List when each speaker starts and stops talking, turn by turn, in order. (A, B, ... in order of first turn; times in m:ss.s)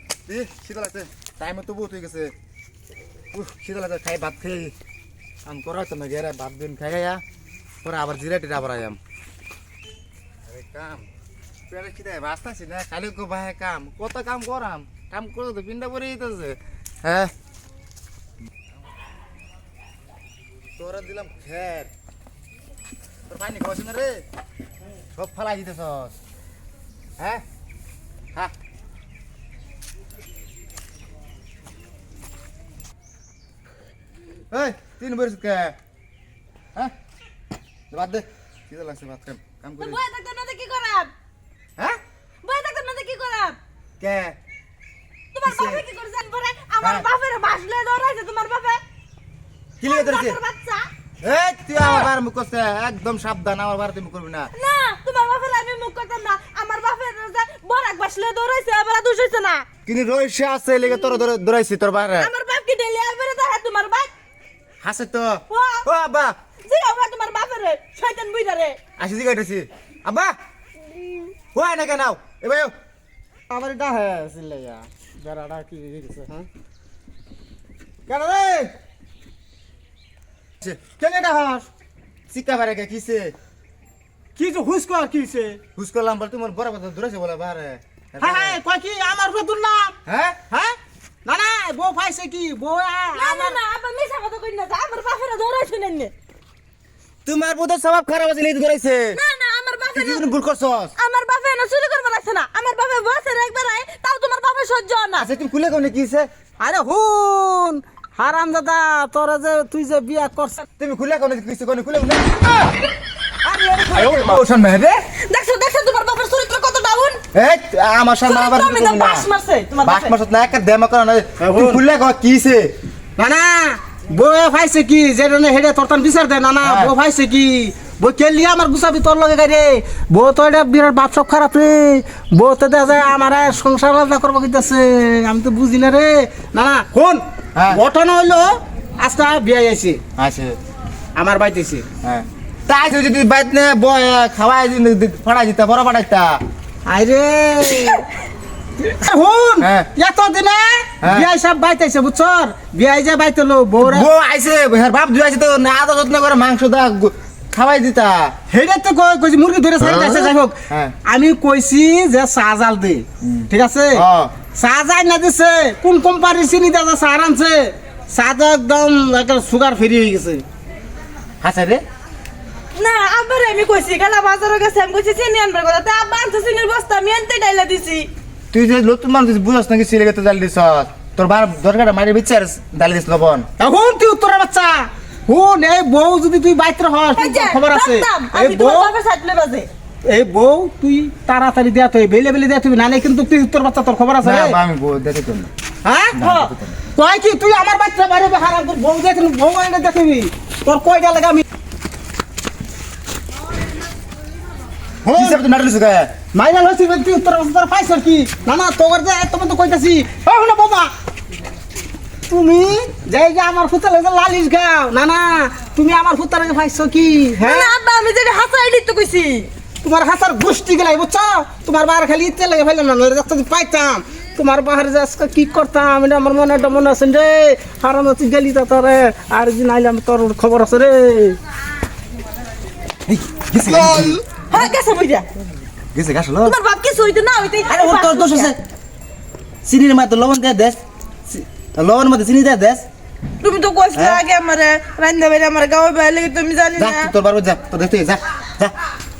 0:00.3-0:02.3 A
0:03.3-0:04.7 A
0:05.4-0:07.2 A
0:07.8-0:09.0 A
0:10.4-0:11.1 A
0:11.7-0:17.3 A
0:20.8-0:21.9 A
0:23.3-0:24.2 A
0:25.2-0:26.1 A
0:34.5-0:35.7 A
0:37.9-0:40.0 A
0:39.8-0:41.1 B
0:42.4-0:43.6 B
0:44.0-0:44.4 A
0:45.3-0:48.8 B
0:45.4-0:45.8 A
0:46.8-0:47.0 A
0:49.8-0:50.4 A
0:49.8-0:50.9 B
0:51.2-0:54.5 A
0:51.8-0:52.1 B
0:54.5-0:59.7 B
0:59.8-1:02.3 A
1:02.2-1:04.1 B
1:04.8-1:06.4 A
1:05.5-1:05.9 B
1:06.6-1:08.8 B
1:09.0-1:10.3 A
1:11.5-1:12.7 A
1:13.5-1:16.5 C
1:18.1-1:18.7 C
1:20.9-1:21.7 C
1:22.3-1:23.3 A
1:24.4-1:25.6 C
1:25.8-1:28.6 A
1:28.2-1:30.0 C
1:30.0-1:30.4 A
1:30.5-1:33.6 C
1:33.1-1:36.1 B
1:37.2-1:39.2 A
1:39.1-1:40.3 B
1:39.9-1:40.9 A
1:41.0-1:45.3 B
1:45.2-1:46.3 A
1:46.6-1:50.6 C
1:50.8-1:52.6 A
1:53.4-1:54.4 B
1:53.9-1:55.0 A
1:55.2-1:57.2 B
1:57.3-1:59.3 A
1:58.2-2:00.1 B
1:59.8-2:02.7 A
2:01.4-2:01.8 C
2:03.2-2:20.0 C
2:06.6-2:06.9 A
2:17.6-2:17.8 A
2:20.2-2:20.6 A
2:21.1-2:21.8 C
2:22.0-2:26.4 A
2:26.8-2:28.0 C
2:28.8-2:34.1 C
2:29.6-2:29.9 A
2:31.0-2:31.3 A
2:33.8-2:38.3 A
2:38.5-2:44.0 C
2:43.2-2:44.3 A
2:44.5-2:50.4 C
2:51.4-2:51.8 A
2:52.8-2:58.1 B
2:58.5-3:03.5 A
3:03.6-3:08.9 C
3:07.1-3:09.7 B
3:10.0-3:14.6 C
3:14.2-3:15.5 A
3:15.8-3:21.4 C
3:16.1-3:16.8 A
3:25.0-3:26.1 A
3:25.1-3:25.4 C
3:26.3-3:30.9 C
3:32.3-3:37.7 C
3:37.4-3:39.5 B
3:39.8-3:51.4 C
3:53.1-3:54.2 A
3:53.8-3:55.3 B
3:55.9-3:56.5 A
3:56.4-3:58.5 B
3:57.7-3:58.6 A
3:59.6-4:02.8 A
4:03.4-4:07.1 B
4:03.9-4:04.2 A
4:06.8-4:08.7 A